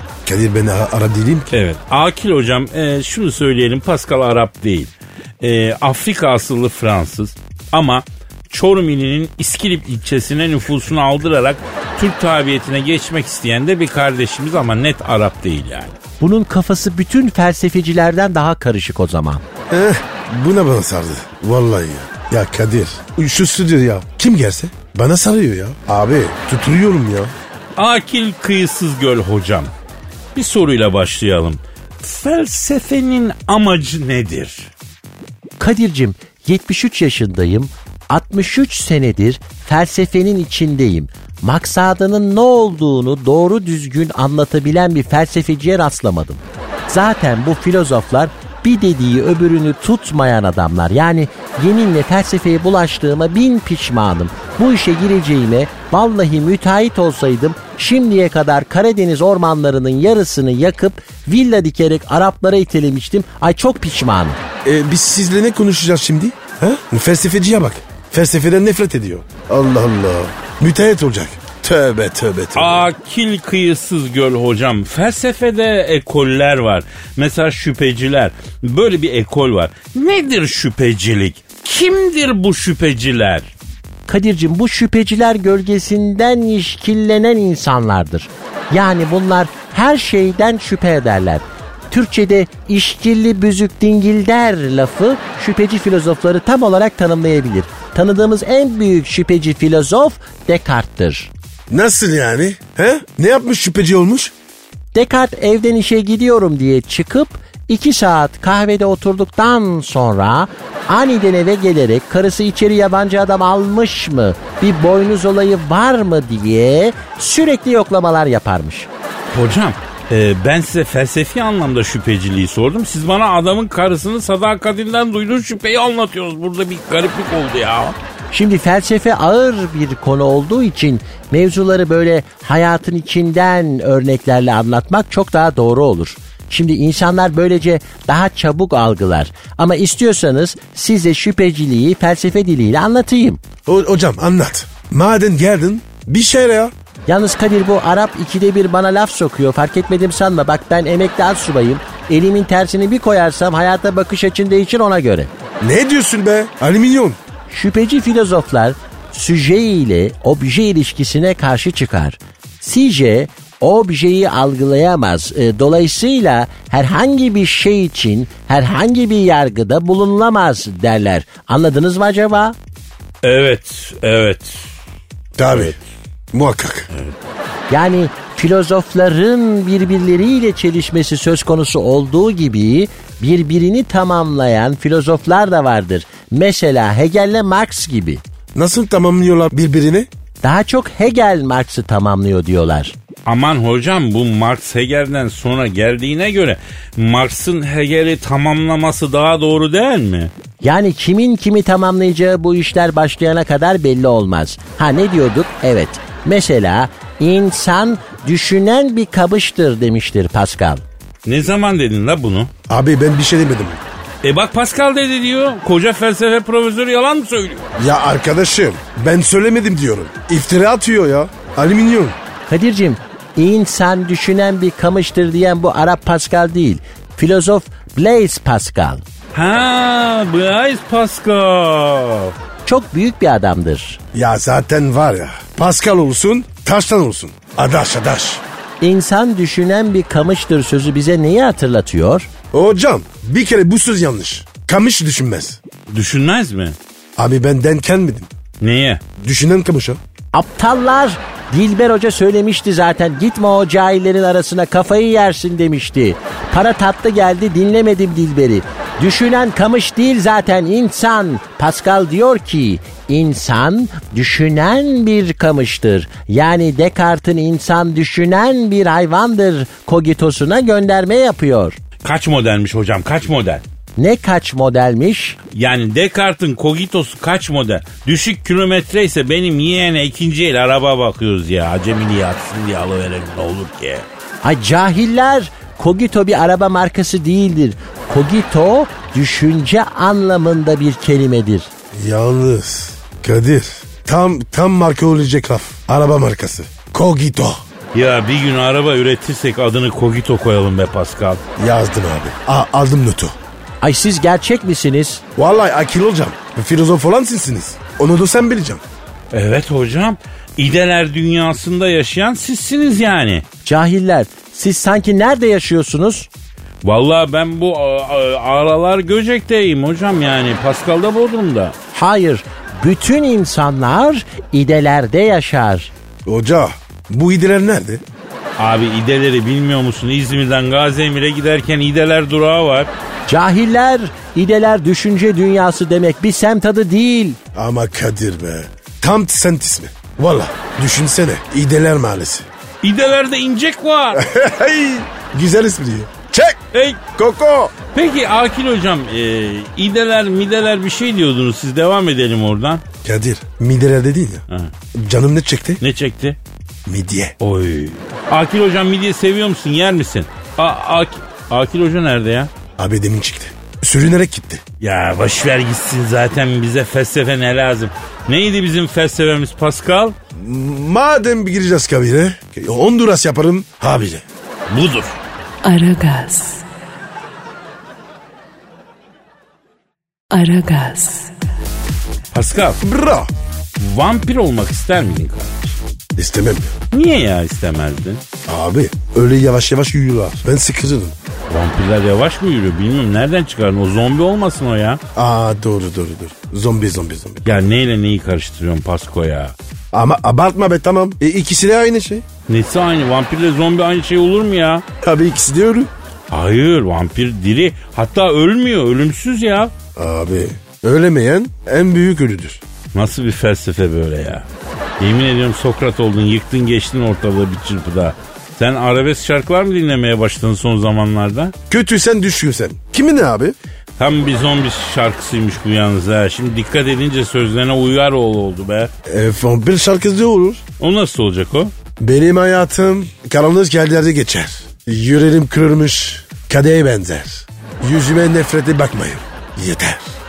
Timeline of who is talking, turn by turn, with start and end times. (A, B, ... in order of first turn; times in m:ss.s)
0:00.3-0:01.5 A
0:01.5-0:16.0 B
0:16.2-0:19.4 C
0:19.7-0:27.3 A
0:27.8-0:29.7 B
0:30.4-0:34.7 B
0:35.6-1:04.4 C
1:04.6-1:12.9 A
1:12.6-1:23.5 B
1:24.1-1:41.3 C
1:41.7-1:44.3 A
1:44.9-1:58.9 C
1:59.3-2:08.0 B
2:08.3-2:23.4 C
2:23.7-2:26.7 A
2:27.1-2:35.3 C
2:35.6-2:37.2 A
2:37.5-2:52.6 C
2:53.2-2:54.7 B
2:55.4-2:55.8 A
2:55.5-2:55.8 B
2:56.3-2:56.9 A
2:57.7-3:08.2 C
3:08.6-3:10.1 A
3:10.4-3:13.0 C
3:13.3-3:20.3 B
3:20.6-3:30.8 C
3:31.2-3:32.5 B
3:32.7-3:33.8 A
3:34.2-3:37.7 B
3:37.8-3:42.2 A
3:42.5-3:49.0 C
3:49.3-3:52.4 B
3:52.7-3:54.0 C
3:54.1-3:58.4 A
3:58.8-4:02.3 C
4:02.5-4:05.6 A
4:05.9-4:06.8 B
4:07.2-4:08.3 A
4:08.6-4:09.0 B
4:09.2-4:10.0 A
4:10.3-4:31.8 C
4:32.0-4:33.6 B
4:34.0-4:35.4 C
4:35.5-4:44.0 B
4:44.4-4:51.7 C
4:51.9-4:57.6 A
4:57.9-5:01.4 B
5:01.6-5:03.4 A
5:03.8-5:05.2 C
5:05.4-5:08.8 A
5:09.3-5:13.4 B
5:13.6-5:16.3 C
5:16.8-5:21.8 B
5:21.9-5:25.9 C
5:26.3-5:28.0 A
5:28.6-5:32.9 B
5:33.3-5:37.4 C
5:37.5-5:42.5 A
5:42.8-5:44.2 B
5:44.1-5:46.6 A
5:46.7-5:47.0 B
5:47.2-5:47.8 A
5:47.9-5:52.8 B
5:53.0-5:55.8 A
5:55.8-5:56.4 B
5:56.9-5:57.4 A
5:57.4-6:02.5 B
6:02.8-6:04.6 A
6:04.8-6:10.2 B
6:10.4-6:14.2 A
6:14.7-6:15.2 B
6:15.6-6:16.6 D
6:20.3-6:21.3 D
6:22.3-6:22.8 B
6:22.8-6:23.3 A
6:23.8-6:25.8 B
6:26.2-6:26.8 A
6:26.9-6:28.2 B
6:28.5-6:31.2 A
6:31.5-6:35.0 B
6:35.2-6:37.6 A
6:37.4-6:39.6 B
6:39.9-6:42.2 A
6:42.5-6:44.8 B
6:45.0-6:45.9 A
6:46.3-6:49.7 B
6:50.0-6:52.6 A
6:52.9-6:54.5 B
6:55.0-7:01.5 B
7:01.7-7:03.6 A
7:04.0-7:08.9 B
7:09.1-7:10.6 A
7:10.8-7:11.7 B
7:12.0-7:20.2 A